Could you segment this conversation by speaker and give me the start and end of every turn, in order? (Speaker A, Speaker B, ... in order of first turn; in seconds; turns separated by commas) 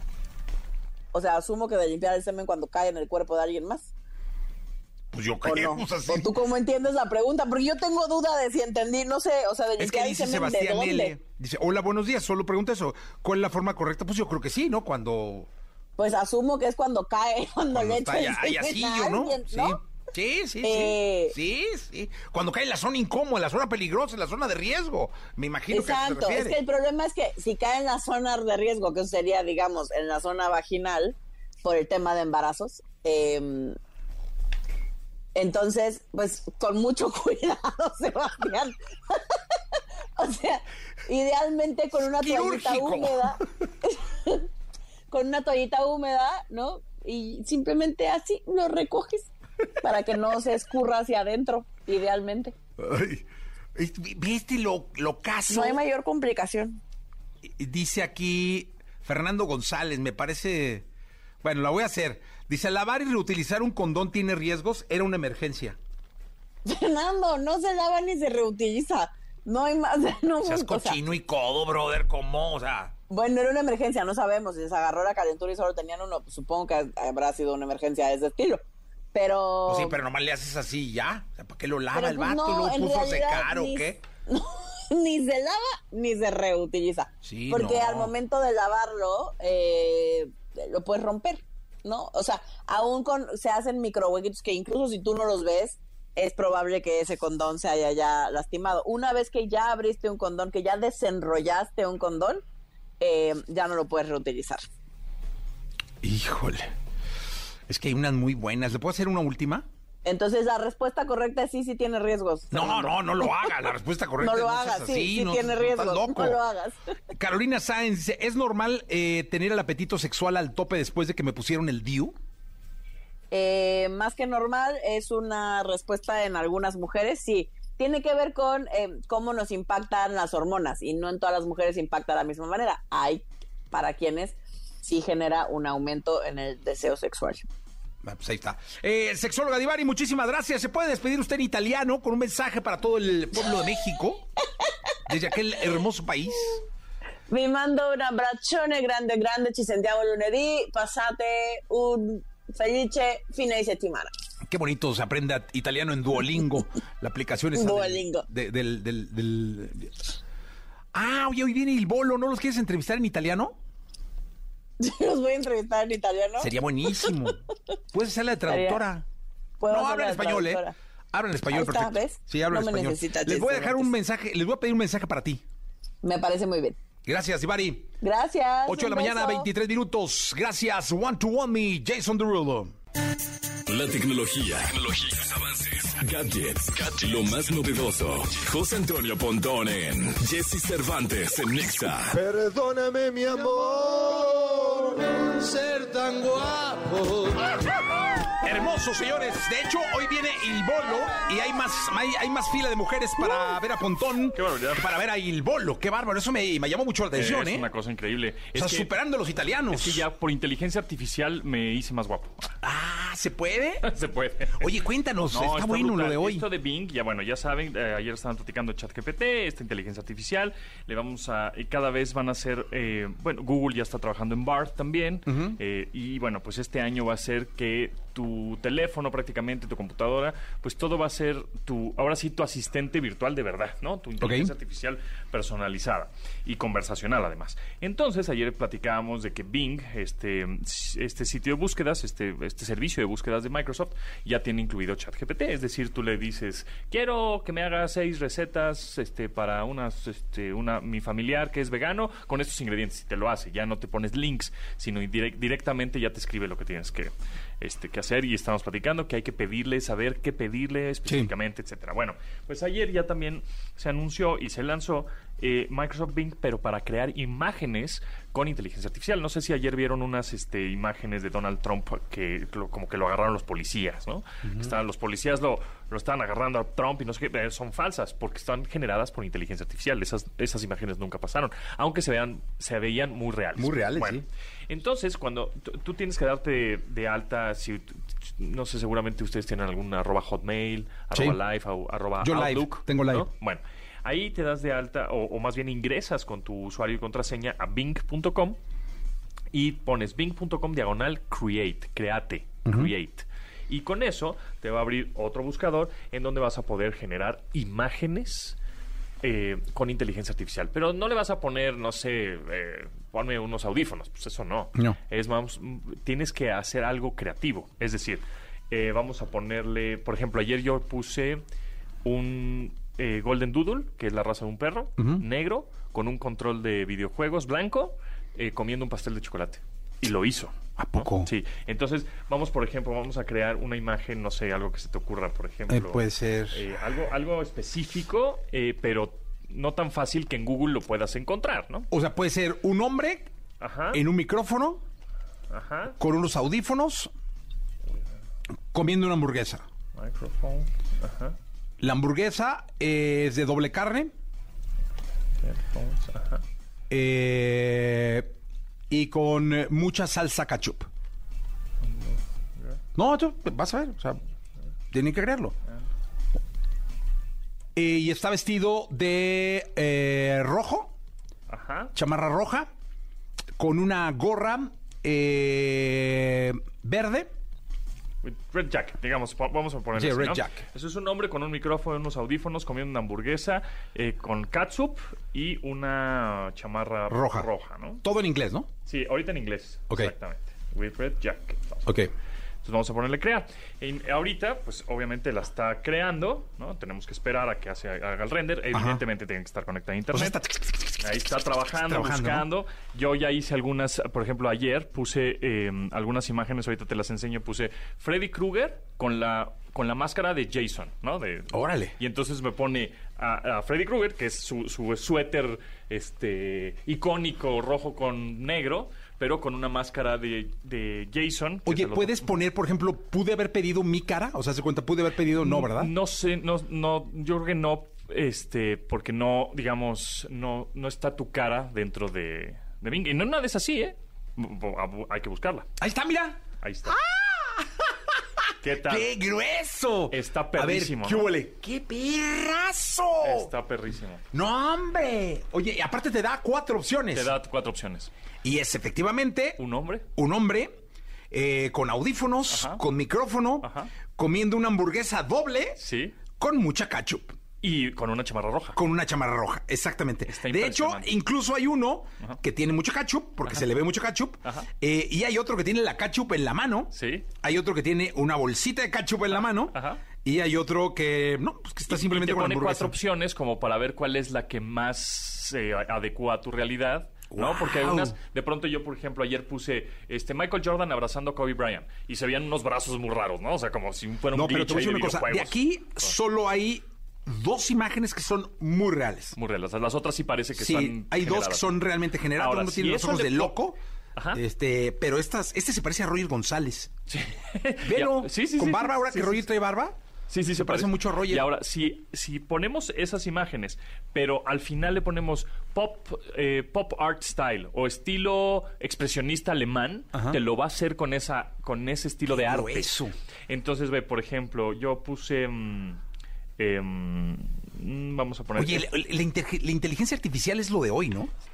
Speaker A: 1.1-3.9, Speaker B: 5.1-6.3, Speaker A: 5.5-11.1, Speaker B: 9.8-15.5, Speaker A: 16.0-19.8, Speaker B: 17.7-26.6, Speaker A: 20.6-21.4, Speaker A: 25.7-33.8, Speaker A: 35.4-39.4, Speaker A: 40.2-44.5, Speaker B: 42.2-43.5, Speaker A: 45.1-49.3, Speaker A: 49.8-52.5, Speaker B: 52.8-53.2, Speaker B: 53.8-55.8, Speaker A: 55.5-56.8, Speaker B: 57.4-60.9, Speaker B: 61.4-65.8, Speaker A: 66.7-71.0, Speaker B: 70.4-72.9, Speaker A: 73.1-78.6, Speaker A: 79.1-80.0, Speaker B: 79.7-84.0, Speaker A: 81.9-102.4, Speaker B: 87.2-88.1, Speaker A: 103.0-104.7, Speaker B: 106.0-106.7, Speaker B: 107.7-109.7, Speaker A: 110.0-113.5, Speaker B: 112.5-116.4, Speaker A: 114.2-116.8, Speaker B: 117.2-122.2, Speaker A: 123.3-137.4, Speaker B: 138.0-144.2, Speaker B: 145.1-146.6, Speaker A: 147.3-154.1, Speaker B: 154.5-159.9, Speaker A: 157.6-158.2, Speaker B: 160.9-163.6, Speaker A: 164.8-167.3, Speaker B: 166.4-167.4, Speaker B: 167.9-169.1, Speaker A: 168.5-168.8, Speaker A: 169.6-170.7, Speaker B: 169.7-175.4, Speaker A: 171.5-173.9, Speaker A: 176.0-176.8, Speaker B: 177.1-177.9, Speaker A: 178.0-179.5, Speaker B: 178.7-182.8, Speaker C: 183.7-192.2, Speaker D: 192.1-197.5, Speaker B: 198.4-207.7, Speaker E: 203.3-203.5, Speaker E: 204.3-204.9, Speaker E: 207.1-208.9, Speaker B: 208.5-210.0, Speaker E: 209.7-212.6, Speaker B: 212.6-213.8, Speaker E: 213.8-214.7, Speaker B: 214.6-216.5, Speaker E: 215.3-298.6, Speaker B: 225.3-225.6, Speaker B: 234.2-234.5, Speaker B: 261.1-261.3, Speaker B: 274.5-274.8, Speaker B: 283.6-284.2, Speaker B: 291.1-291.4, Speaker B: 292.2-293.3, Speaker E: 299.5-308.6, Speaker B: 302.7-302.9, Speaker E: 309.2-321.4, Speaker E: 322.0-341.9, Speaker B: 325.0-325.2, Speaker B: 330.8-331.3, Speaker B: 335.7-336.6, Speaker B: 341.9-343.3, Speaker E: 343.6-344.0, Speaker B: 343.9-344.8, Speaker E: 345.5-346.0, Speaker B: 346.0-347.1, Speaker B: 348.7-349.7, Speaker E: 349.9-351.4, Speaker B: 351.8-354.1, Speaker E: 355.4-356.4, Speaker B: 356.9-358.3, Speaker B: 358.9-360.9, Speaker E: 361.9-362.8, Speaker B: 363.0-364.2, Speaker B: 364.9-365.6, Speaker B: 367.8-370.9, Speaker E: 371.5-371.9, Speaker B: 371.9-372.7, Speaker B: 373.6-377.3, Speaker E: 378.2-388.0, Speaker B: 380.0-380.6, Speaker B: 387.1-387.5, Speaker B: 388.0-388.7, Speaker E: 388.9-391.9, Speaker B: 391.9-392.1, Speaker E: 392.6-400.4, Speaker B: 398.7-399.0, Speaker B: 400.1-401.0, Speaker E: 401.0-422.4, Speaker B: 401.9-402.5, Speaker B: 411.5-411.9, Speaker B: 421.7-425.9, Speaker E: 425.4-435.7, Speaker B: 435.8-437.9, Speaker E: 436.6-437.0, Speaker E: 438.6-439.1, Speaker B: 438.7-443.5, Speaker E: 440.1-441.4, Speaker E: 443.2-444.2, Speaker B: 444.3-447.3, Speaker E: 447.1-448.1, Speaker B: 448.4-449.6, Speaker E: 449.6-450.1, Speaker B: 450.1-450.8, Speaker B: 451.3-455.8, Speaker E: 452.5-452.8, Speaker E: 453.6-453.9, Speaker E: 455.8-456.2, Speaker B: 456.4-457.4, Speaker E: 457.6-458.8, Speaker B: 458.8-473.0, Speaker E: 460.3-461.1, Speaker E: 466.9-467.3, Speaker E: 469.3-470.0, Speaker E: 471.9-486.1, Speaker B: 477.3-478.2, Speaker B: 484.3-489.4, Speaker E: 489.4-491.8, Speaker B: 490.6-493.8, Speaker E: 492.3-494.4, Speaker B: 494.3-496.9, Speaker E: 497.1-499.5, Speaker B: 497.8-500.0, Speaker E: 500.3-516.0, Speaker B: 500.5-501.5, Speaker B: 510.1-510.4, Speaker B: 512.3-513.1, Speaker E: 516.6-518.9, Speaker B: 518.6-521.3